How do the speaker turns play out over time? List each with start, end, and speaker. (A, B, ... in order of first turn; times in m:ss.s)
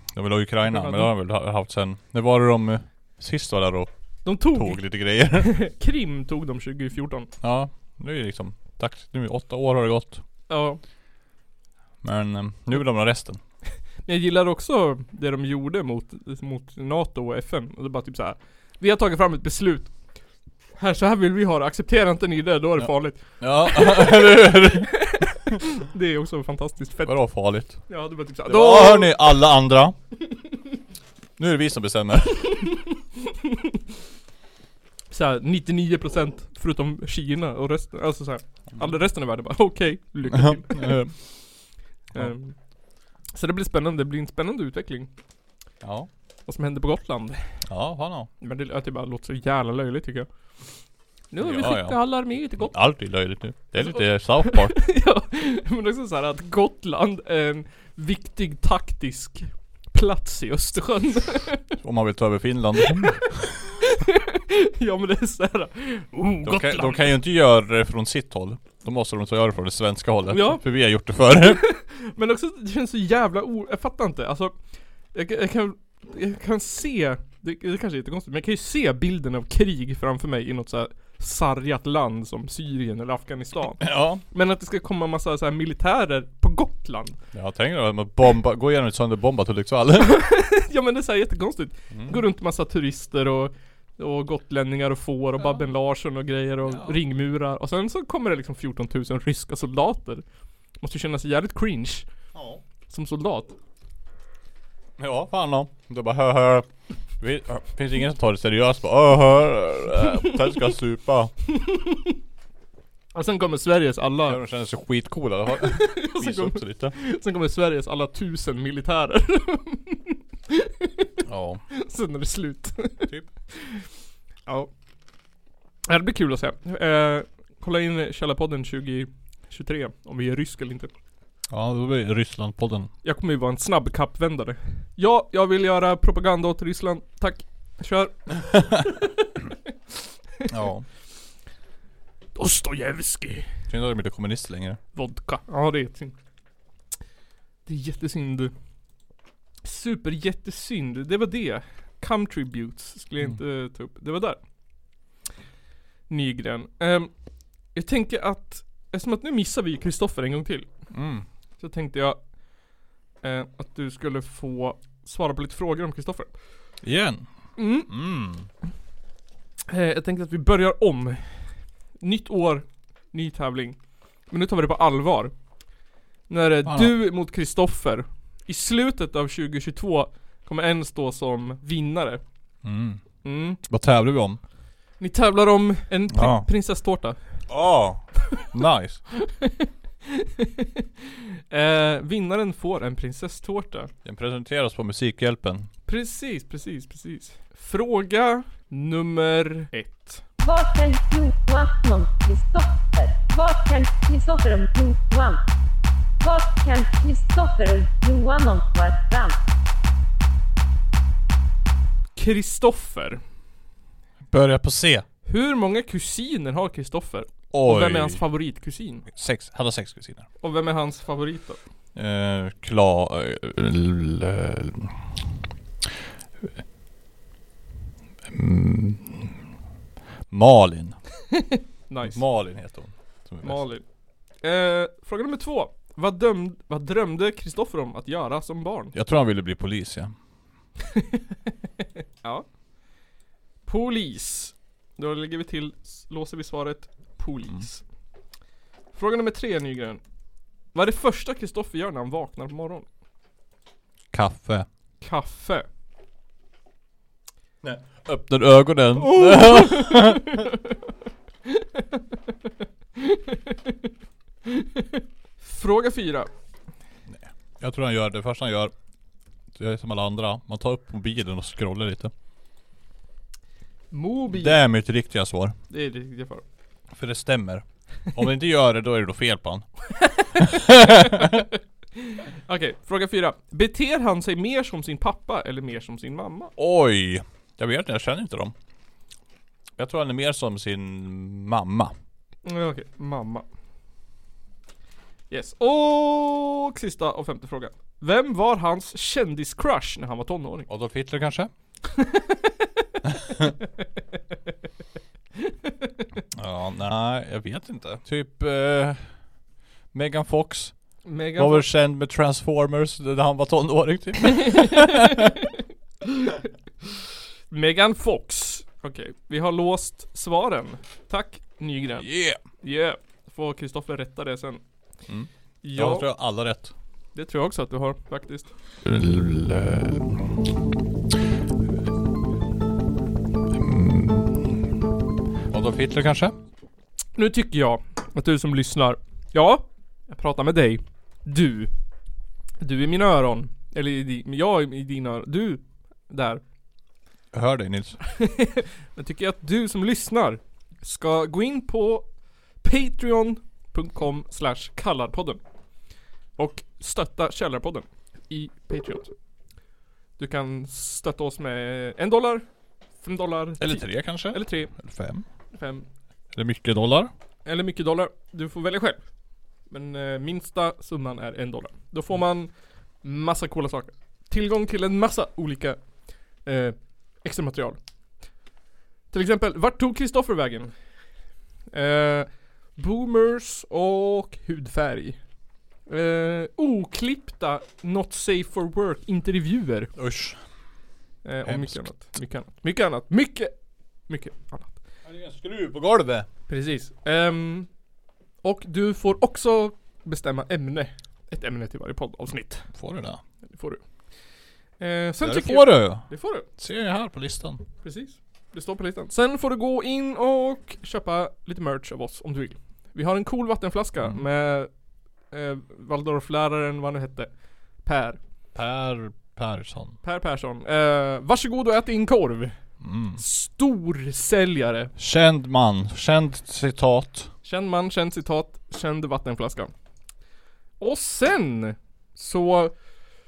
0:00.1-0:05.6 A
0:00.7-0:01.1 B
0:04.2-0:07.3 B
0:07.4-0:10.2 A
0:10.5-0:10.8 B
0:12.0-0:13.4 A
0:14.1-0:19.9 B
0:20.8-0:27.2 B
0:22.8-0:25.1 A
0:27.0-0:27.8 A
0:27.9-0:29.4 B
0:28.5-0:30.0 A
0:31.4-0:32.6 A
0:35.1-0:41.0 B
0:40.3-0:41.2 A
0:42.1-0:42.6 B
0:43.3-0:45.1 B
0:45.8-0:46.1 A
0:46.5-0:47.4 B
0:47.7-0:48.3 A
0:48.4-0:50.3 B
0:51.3-0:52.7 B
0:51.4-0:54.8 A
0:53.8-1:01.8 B
1:01.8-1:03.5 A
1:03.8-1:07.1 B
1:06.4-1:11.6 A
1:10.3-1:10.6 B
1:11.4-1:14.5 B
1:15.1-1:27.2 B
1:23.7-1:24.2 A
1:27.3-1:30.2 A
1:30.0-1:40.2 B
1:31.9-1:32.2 A
1:36.6-1:37.0 A
1:40.8-1:42.1 B
1:42.3-1:42.6 A
1:42.9-1:43.6 B
1:45.0-1:51.3 A
1:51.6-1:52.1 B
1:53.1-1:54.4 B
1:54.2-1:57.0 A
1:55.7-2:01.1 B
2:01.3-2:01.6 A
2:01.7-2:03.8 B
2:05.9-2:10.9 B
2:11.5-2:12.9 A
2:13.0-2:19.5 B
2:18.5-2:18.8 A
2:20.5-2:20.9 A
2:22.4-2:23.5 B
2:23.7-2:24.8 A
2:25.0-2:26.2 B
2:27.7-2:28.5 B
2:29.6-2:34.4 B
2:36.1-2:37.1 B
2:37.7-2:40.7 B
2:40.9-2:41.3 A
2:41.6-2:42.2 B
2:43.2-2:46.3 B
2:46.8-2:48.5 A
2:47.6-2:47.9 B
2:49.7-2:53.8 B
2:54.3-2:55.3 B
2:56.3-3:02.2 B
2:56.6-2:57.0 A
3:02.6-3:03.0 A
3:03.2-3:03.6 B
3:03.6-3:04.4 A
3:05.0-3:07.2 B
3:06.1-3:06.5 A
3:07.5-3:09.0 A
3:09.2-3:10.9 B
3:11.5-3:13.9 B
3:14.0-3:15.7 A
3:15.9-3:20.2 B
3:20.4-3:25.4 C
3:26.2-3:29.4 C
3:32.2-3:33.2 B
3:34.3-3:35.0 A
3:35.3-3:39.1 B
3:37.5-3:38.2 A
3:39.1-3:40.3 A
3:40.4-3:41.6 B
3:42.0-3:45.1 A
3:48.3-3:49.4 A
3:50.3-3:51.0 A
3:51.3-3:52.2 B
3:52.0-3:53.6 A
3:53.4-3:53.8 B
3:54.4-3:58.9 B
3:58.9-4:00.1 A
4:00.9-4:01.2 B
4:03.7-4:07.8 B
4:08.9-4:10.0 B
4:10.7-4:12.9 B
4:14.1-4:14.7 A
4:15.0-4:15.7 B
4:17.6-4:20.5 A
4:19.0-4:20.6 B
4:21.5-4:22.0 B
4:23.0-4:23.8 B
4:24.4-4:26.3 B
4:27.1-4:28.7 A
4:29.6-4:32.1 A
4:33.9-4:34.6 B
4:34.3-4:35.6 A
4:35.7-4:36.4 B
4:36.9-4:39.7 A
4:40.0-4:46.5 B
4:40.4-4:41.5 A
4:46.6-4:48.6 A
4:49.8-4:51.9 A
4:52.4-4:53.5 B
4:55.3-5:00.7 B
5:00.7-5:01.5 A
5:02.0-5:02.6 B
5:03.0-5:03.5 A
5:05.4-5:06.0 B
5:06.3-5:09.2 A
5:09.9-5:15.3 A
5:11.0-5:11.7 B
5:14.4-5:15.4 B
5:16.1-5:16.4 B
5:17.5-5:22.1 B
5:22.0-5:22.4 A
5:22.6-5:24.6 B
5:25.1-5:26.7 A
5:25.6-5:26.1 B
5:27.2-5:28.5 B
5:28.8-5:30.4 A
5:33.5-5:34.8 A
5:35.5-5:36.4 A
5:37.2-5:41.7 B
5:42.6-5:46.4 B
5:47.3-5:48.0 A
5:48.1-5:52.1 B
5:52.6-5:55.4 B
5:56.4-5:59.1 B
6:00.2-6:02.4 B
6:03.0-6:04.7 B
6:03.6-6:05.2 A
6:05.5-6:05.9 B
6:06.3-6:07.1 A
6:07.4-6:09.0 B
6:09.7-6:12.5 B
6:13.0-6:15.8 B
6:16.4-6:17.8 B
6:19.1-6:20.7 B
6:21.7-6:25.2 B
6:25.9-6:29.9 B
6:30.0-6:30.4 A
6:31.2-6:33.5 B
6:31.4-6:32.2 A
6:34.1-6:34.8 B
6:35.0-6:36.3 A
6:36.5-6:37.7 B
6:38.4-6:42.7 B
6:42.7-6:43.2 A
6:43.5-6:43.8 B
6:44.8-6:46.5 B
6:45.2-6:47.6 A
6:47.8-6:54.7 B
6:55.3-6:57.3 B
6:57.8-6:58.2 B
6:58.6-7:00.0 A
7:00.0-7:02.6 B
7:02.8-7:03.2 A
7:03.2-7:04.9 B
7:05.0-7:07.3 A
7:07.4-7:09.7 B
7:10.8-7:12.7 B